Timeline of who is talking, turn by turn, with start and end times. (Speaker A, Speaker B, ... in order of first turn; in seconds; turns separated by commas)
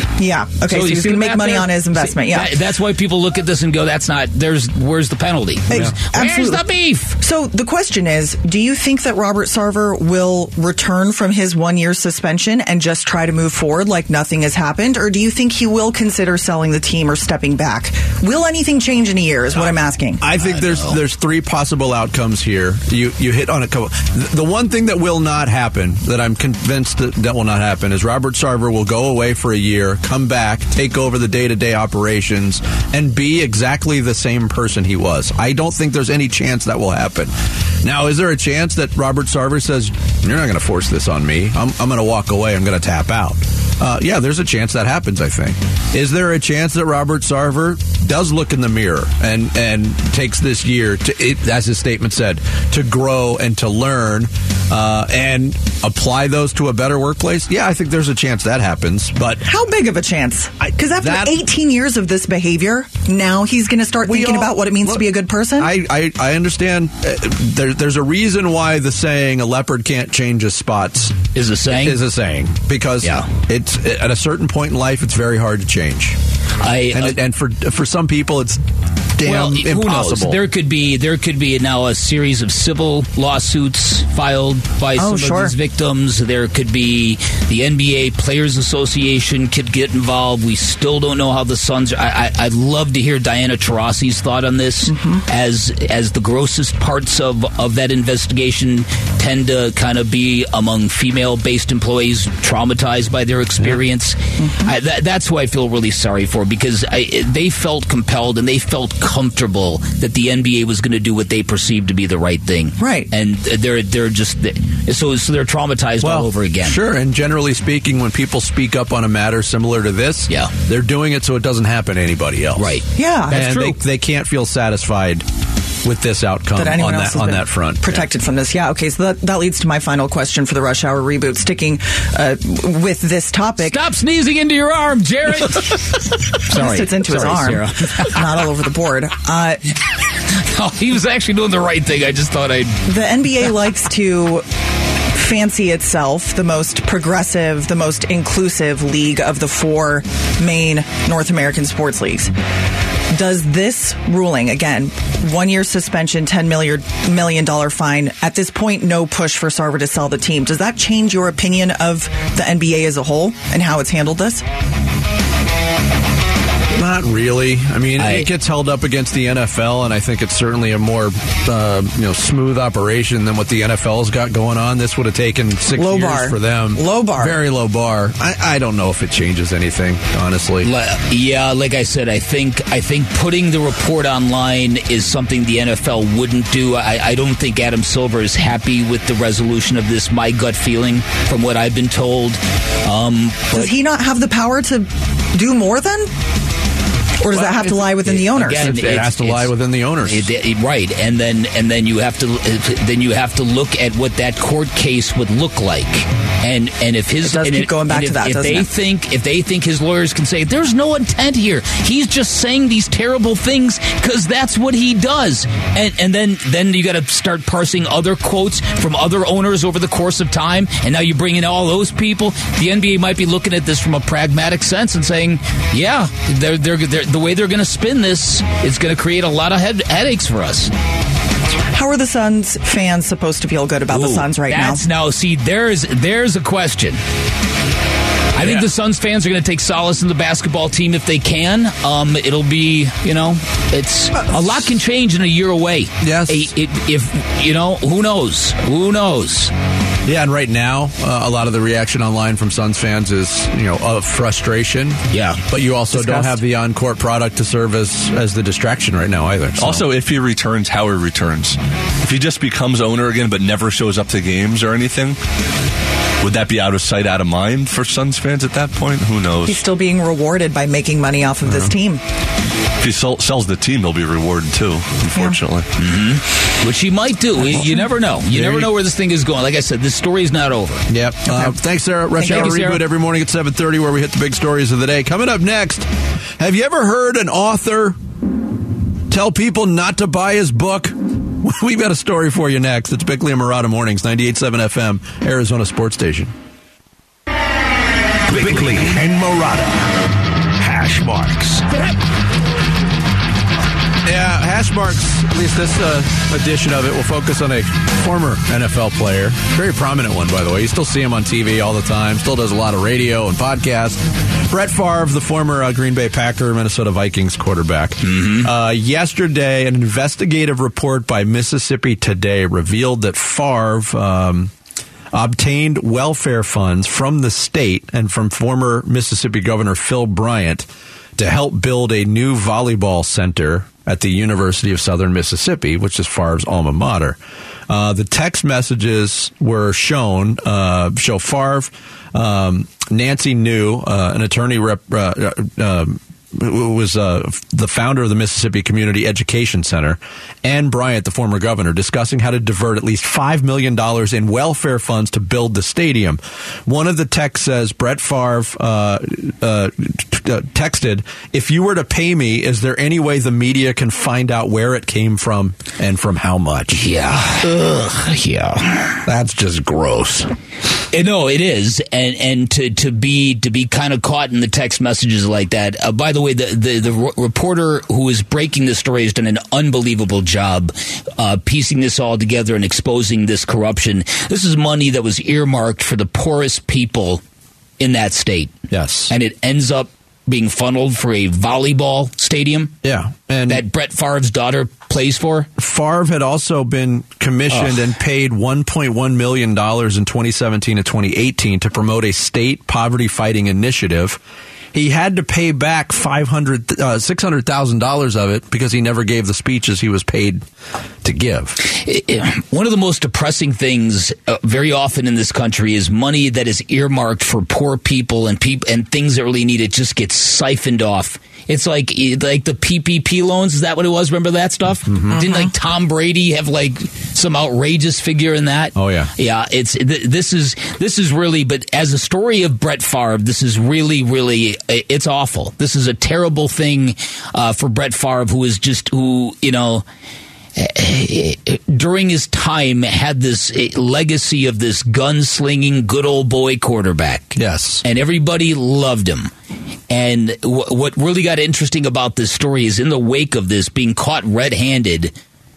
Speaker A: 0.2-2.6, Speaker B: 0.7-7.2, Speaker A: 5.7-6.6, Speaker A: 7.2-20.2, Speaker C: 20.2-59.4, Speaker B: 20.4-21.0, Speaker A: 59.4-65.7, Speaker C: 60.6-61.4, Speaker C: 64.0-76.2, Speaker B: 71.3-72.0, Speaker B: 73.0-73.3, Speaker B: 76.6-77.2, Speaker C: 76.9-78.6, Speaker C: 79.2-80.4, Speaker B: 79.2-116.8, Speaker A: 85.0-85.5, Speaker A: 94.9-95.2, Speaker A: 104.4-104.7, Speaker A: 112.8-113.1, Speaker C: 116.0-122.8, Speaker B: 122.5-123.8, Speaker A: 122.9-123.4, Speaker C: 123.3-125.2, Speaker C: 125.8-128.1, Speaker A: 126.5-133.8, Speaker B: 133.6-138.3, Speaker A: 136.5-139.6, Speaker B: 140.3-142.8, Speaker A: 142.9-144.4, Speaker A: 145.1-152.3, Speaker A: 153.1-164.4, Speaker C: 166.7-180.7, Speaker B: 168.0-168.3, Speaker A: 175.7-177.3, Speaker B: 180.6-193.7, Speaker A: 193.5-196.1, Speaker A: 197.2-198.7, Speaker C: 197.3-200.3, Speaker B: 198.0-199.5, Speaker B: 200.0-230.7, Speaker A: 207.2-208.7, Speaker A: 231.7-234.8, Speaker B: 233.9-237.0, Speaker B: 238.3-249.5, Speaker C: 238.3-238.7, Speaker C: 244.2-244.6, Speaker C: 246.0-246.4, Speaker C: 250.1-259.9, Speaker B: 255.1-255.4, Speaker B: 255.9-256.3, Speaker D: 259.6-265.2, Speaker D: 266.2-269.6, Speaker A: 269.4-272.0, Speaker C: 271.4-271.7, Speaker D: 272.8-275.7, Speaker B: 275.8-280.8, Speaker C: 277.5-278.7, Speaker C: 280.9-288.0, Speaker A: 281.3-281.5, Speaker A: 282.2-282.6, Speaker B: 282.2-282.8, Speaker C: 289.1-296.3, Speaker E: 298.3-299.8, Speaker E: 300.6-301.7, Speaker C: 304.0-324.5, Speaker B: 318.0-318.5, Speaker C: 325.1-337.2, Speaker C: 337.7-366.8, Speaker B: 366.7-369.0, Speaker C: 369.0-370.3, Speaker B: 370.9-387.2, Speaker B: 387.8-388.5, Speaker C: 388.7-389.1, Speaker B: 389.1-392.7, Speaker C: 392.8-393.6, Speaker B: 393.5-395.5, Speaker C: 395.6-404.2, Speaker C: 404.7-410.4, Speaker C: 411.0-411.6, Speaker B: 411.7-439.8, Speaker C: 424.9-425.2, Speaker A: 425.2-425.5, Speaker C: 428.7-429.1, Speaker B: 440.6-449.3, Speaker C: 447.3-447.8, Speaker B: 449.9-455.1